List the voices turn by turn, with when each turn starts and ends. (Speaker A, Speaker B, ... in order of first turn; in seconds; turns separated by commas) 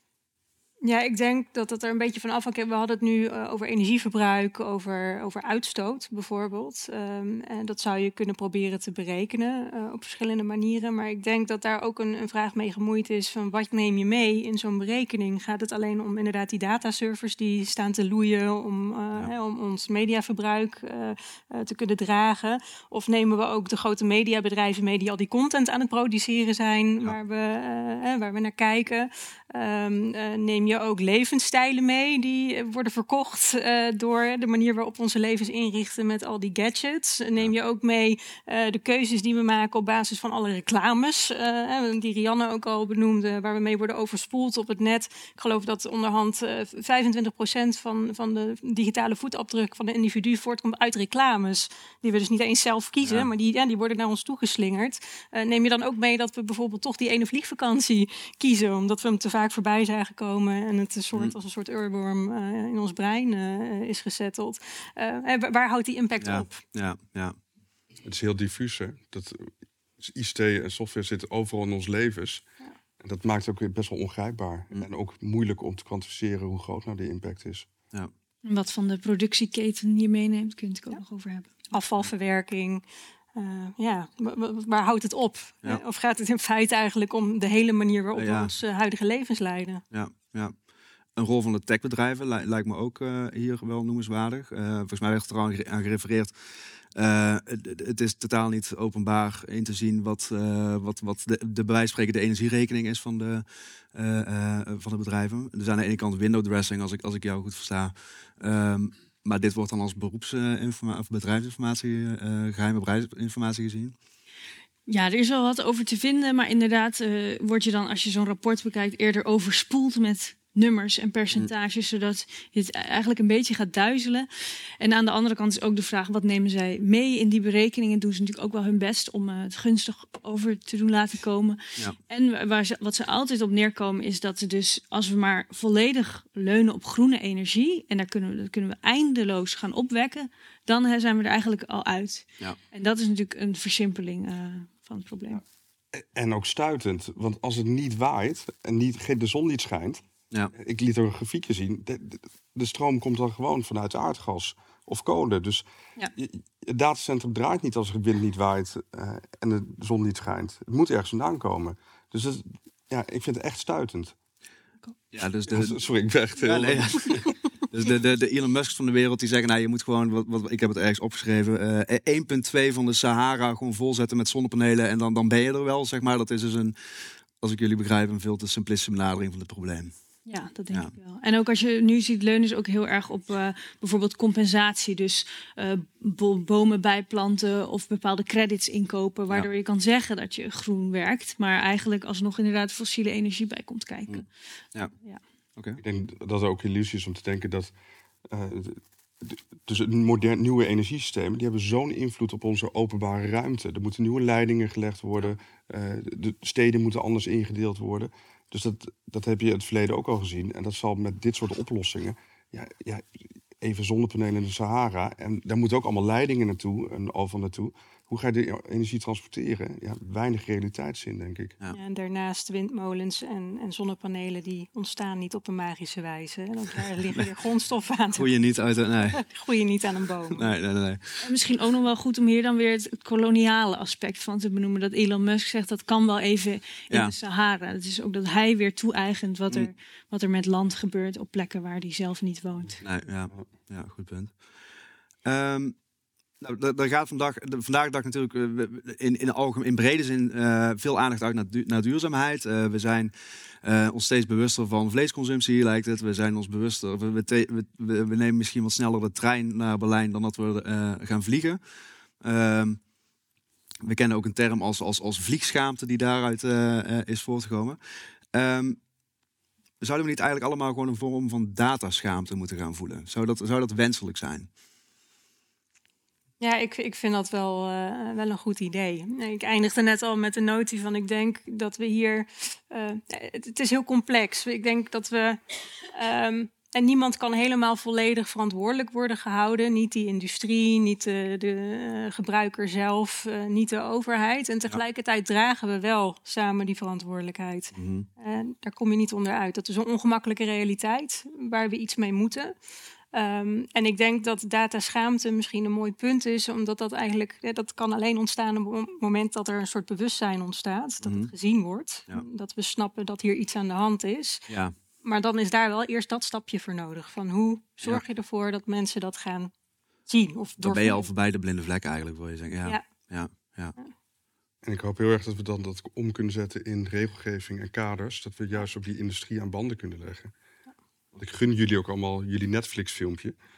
Speaker A: 0.8-66.6, Speaker B: 53.0-53.3, Speaker B: 66.2-67.4, Speaker C: 68.0-72.5, Speaker C: 73.0-77.7, Speaker D: 78.5-81.5, Speaker A: 81.7-89.8, Speaker B: 88.2-88.5, Speaker B: 89.9-90.6, Speaker B: 91.2-96.3, Speaker B: 96.9-114.0, Speaker D: 114.9-124.3, Speaker D: 124.8-145.4, Speaker C: 145.9-150.0, Speaker C: 150.6-155.7, Speaker C: 156.2-164.2, Speaker B: 165.1-165.8, Speaker C: 165.5-167.3, Speaker B: 166.4-176.8, Speaker B: 177.4-179.9, Speaker D: 180.3-194.3, Speaker B: 194.1-194.9, Speaker B: 195.6-195.8, Speaker C: 195.8-197.7, Speaker C: 198.3-213.1, Speaker C: 213.6-221.6, Speaker A: 221.7-228.4, Speaker B: 228.2-229.2, Speaker A: 229.1-230.5, Speaker B: 230.3-231.3, Speaker D: 231.2-242.8, Speaker B: 242.8-244.4, Speaker B: 245.2-245.8, Speaker B: 246.4-261.6, Speaker B: 262.2-262.8, Speaker B: 263.8-267.8, Speaker B: 268.3-268.8, Speaker B: 269.8-274.5, Speaker A: 276.4-285.4, Speaker A: 285.9-302.6, Speaker B: 297.7-298.1, Speaker A: 303.1-314.5, Speaker B: 311.0-311.3, Speaker B: 314.5-314.8, Speaker A: 315.0-319.5, Speaker A: 320.1-321.1, Speaker B: 320.6-323.8, Speaker C: 324.6-330.3, Speaker C: 331.2-333.4